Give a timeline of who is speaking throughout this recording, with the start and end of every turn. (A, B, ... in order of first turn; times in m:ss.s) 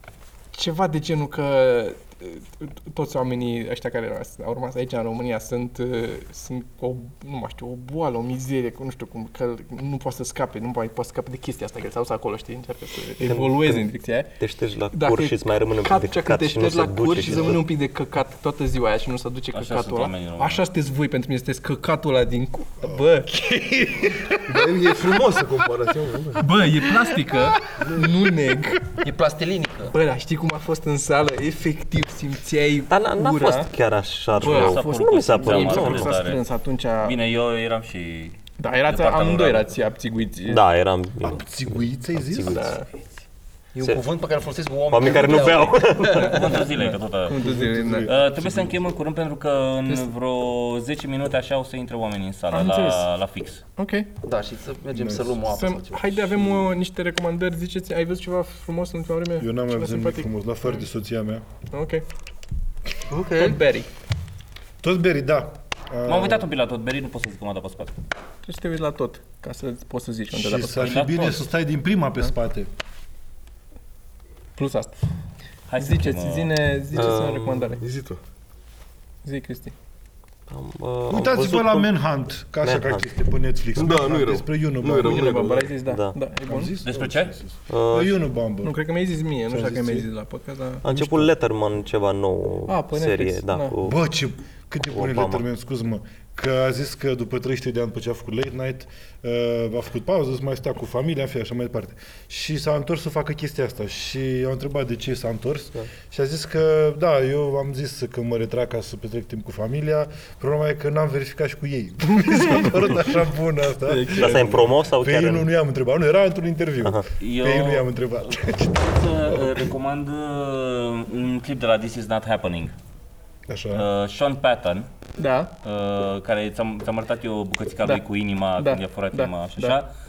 0:00.5-0:14.4 A
0:13.2-0:13.9 B
0:14.4-0:17.7 B
0:14.9-0:23.3 A
0:19.5-0:20.6 C
0:22.8-0:24.6 D
0:24.5-0:26.5 E
0:26.4-0:28.9 A
0:29.0-0:30.0 F
0:29.9-0:33.7 A
0:32.9-0:36.2 B
0:34.4-0:36.4 C
0:34.4-0:37.2 A
0:37.0-0:39.7 C
0:38.6-0:40.6 A
0:40.5-0:42.7 B
0:41.2-0:42.7 D
0:42.4-0:42.9 A
0:43.8-0:46.5 F
0:44.9-0:46.6 B
0:46.0-0:53.6 C
0:46.7-0:48.1 A
0:47.3-0:48.7 D
0:52.5-0:53.1 A
0:53.8-0:54.1 A
0:54.2-0:56.5 F
0:54.9-0:55.4 D
0:55.5-1:00.8 A
0:59.4-1:01.4 D
1:01.7-1:02.0 A
1:03.1-1:03.6 F
1:03.3-1:03.9 A
1:04.8-1:06.4 D
1:06.1-1:08.0 C
1:08.4-1:11.0 A
1:10.3-1:12.7 D
1:10.8-1:11.5 C
1:14.6-1:15.0 A
1:15.7-1:16.6 C
1:15.8-1:17.9 A
1:16.9-1:17.6 B
1:17.8-1:18.2 E
1:19.2-1:19.7 A
1:20.5-1:21.9 B
1:21.1-1:25.3 D
1:22.6-1:23.1 B
1:23.7-1:25.7 E
1:24.9-1:26.8 A
1:25.9-1:26.2 B
1:26.5-1:28.8 D
1:26.8-1:27.4 C
1:27.7-1:28.2 B
1:28.6-1:30.9 A
1:29.5-1:30.1 D
1:30.8-1:34.0 B
1:30.8-1:31.3 D
1:32.7-1:33.8 A
1:33.8-1:59.6 D
1:34.9-1:35.4 B
1:52.3-1:53.1 A
1:53.8-1:54.7 A
1:54.1-1:55.5 B
1:57.2-1:57.9 C
1:58.9-2:02.7 C
2:03.5-2:03.9 D
2:03.7-2:04.9 C
2:05.2-2:05.5 A
2:05.6-2:09.9 C
2:08.6-2:09.8 A